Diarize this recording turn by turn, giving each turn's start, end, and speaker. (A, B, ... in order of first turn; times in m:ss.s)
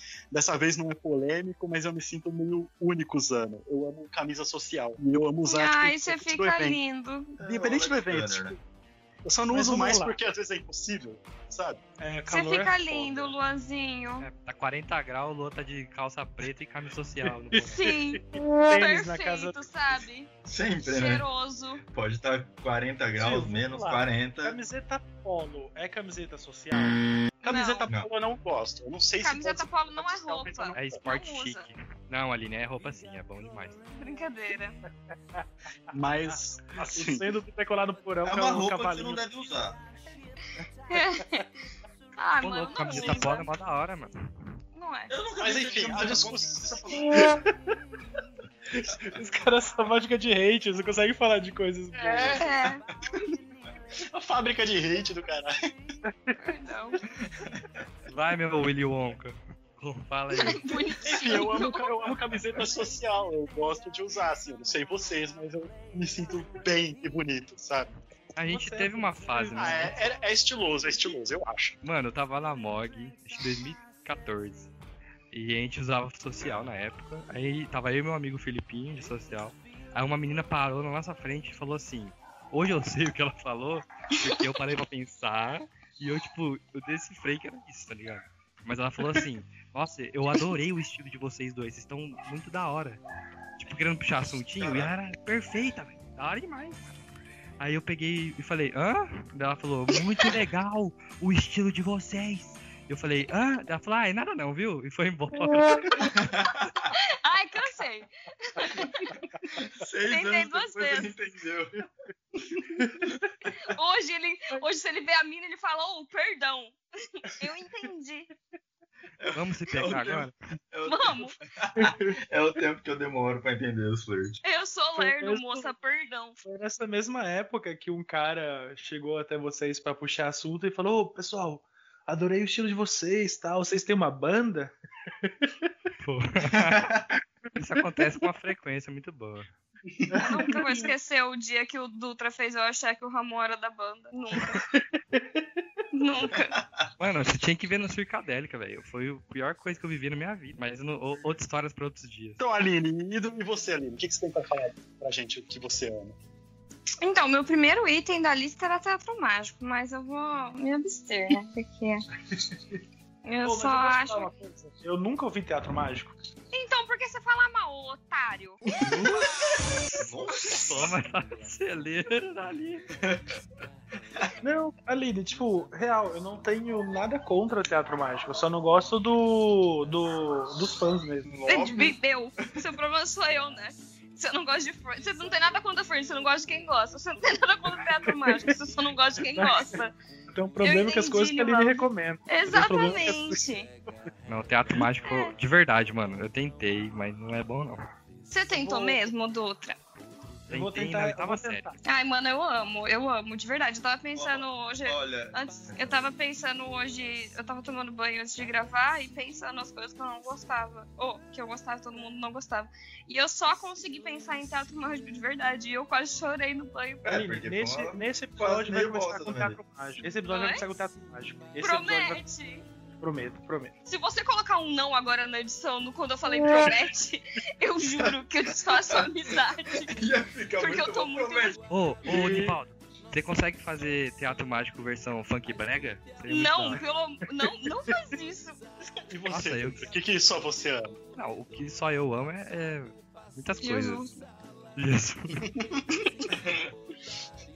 0:00.3-0:06.8 A
0:05.5-0:07.4 B
0:07.4-0:08.6 A
0:07.4-0:08.6 C
0:09.2-0:11.8 A
0:09.5-0:10.2 D
0:12.0-0:13.4 D
0:12.3-0:14.3 B
0:14.2-0:17.8 E
0:17.5-0:20.1 D
0:17.7-0:20.3 B
0:20.4-0:21.3 C
0:20.8-0:21.8 B
0:21.9-0:24.6 C
0:23.2-0:27.0 D
0:27.4-0:31.0 A
0:27.4-0:27.9 B
0:29.2-0:31.7 B
0:30.8-0:33.8 E
0:34.0-0:34.8 B
0:35.9-0:37.4 A
0:36.8-0:39.5 D
0:38.2-0:39.8 C
0:40.9-0:41.5 B
0:41.1-0:41.4 D
0:42.2-0:43.5 B
0:42.4-0:44.2 E
0:44.7-0:45.1 B
0:45.1-0:46.7 C
0:45.4-0:47.1 A
0:46.0-0:46.3 D
0:46.9-0:47.5 D
0:48.7-0:52.5 D
0:51.9-0:52.5 A
0:52.4-0:52.8 B
0:54.1-0:55.7 A
0:56.1-0:56.4 D
0:56.4-0:57.0 B
0:57.4-0:57.7 C
0:58.1-1:00.9 E
1:00.3-1:01.9 B
1:01.0-1:07.9 A
1:08.4-1:10.0 E
1:08.5-1:09.9 D
1:09.6-1:11.8 A
1:11.8-1:14.7 E
1:15.3-1:33.0 E
1:33.6-1:36.8 E
1:34.6-1:34.9 C
1:37.6-1:46.4 E
1:46.3-1:46.9 C
1:46.9-1:49.2 B
1:49.5-1:51.8 C
1:50.1-1:51.1 B
1:52.6-1:53.3 D
1:53.5-1:58.3 B
1:59.2-2:04.4 C
1:59.4-2:00.4 E
2:00.8-2:01.4 B
2:01.8-2:02.2 D
2:04.4-2:06.4 B
2:05.0-2:05.7 D
2:06.4-2:15.7 D
2:16.0-2:16.9 E
2:16.5-2:17.2 C
2:17.6-2:19.5 E
2:20.0-2:20.9 D
2:20.2-2:24.6 B
2:24.5-2:25.5 D
2:25.9-2:26.6 B
2:26.3-2:26.9 C
2:27.0-2:32.4 E
2:32.4-2:36.2 A
2:37.0-2:42.0 B
2:43.2-2:44.3 B
2:43.4-2:46.2 D
2:46.5-2:48.6 B
2:48.9-2:51.0 C
2:48.9-2:49.2 E
2:50.5-2:52.9 E
2:54.4-3:01.4 D
3:01.2-3:02.7 C
3:01.5-3:09.9 B
3:08.0-3:08.6 D
3:09.4-3:09.8 D
3:10.3-3:13.4 D
3:10.6-3:13.7 B
3:14.3-3:17.8 E
3:15.0-3:15.3 B
3:18.3-3:19.8 B
3:18.5-3:19.1 D
3:20.5-3:21.7 E
3:20.5-3:21.8 D
3:21.8-3:37.0 B
3:24.2-3:26.1 C
3:37.0-3:39.6 C
3:37.1-3:42.2 D
3:40.3-3:40.6 B
3:41.6-3:42.7 B
3:43.0-3:43.8 D
3:43.9-3:49.9 B
3:49.9-3:51.6 C
3:50.6-3:51.6 B
3:51.7-3:56.8 E
3:52.1-3:52.6 D
3:56.3-3:58.6 B
3:59.1-4:01.0 A
3:59.3-3:59.9 E
4:01.2-4:04.1 E
4:03.6-4:04.1 B
4:04.8-4:05.4 E
4:06.3-4:06.7 C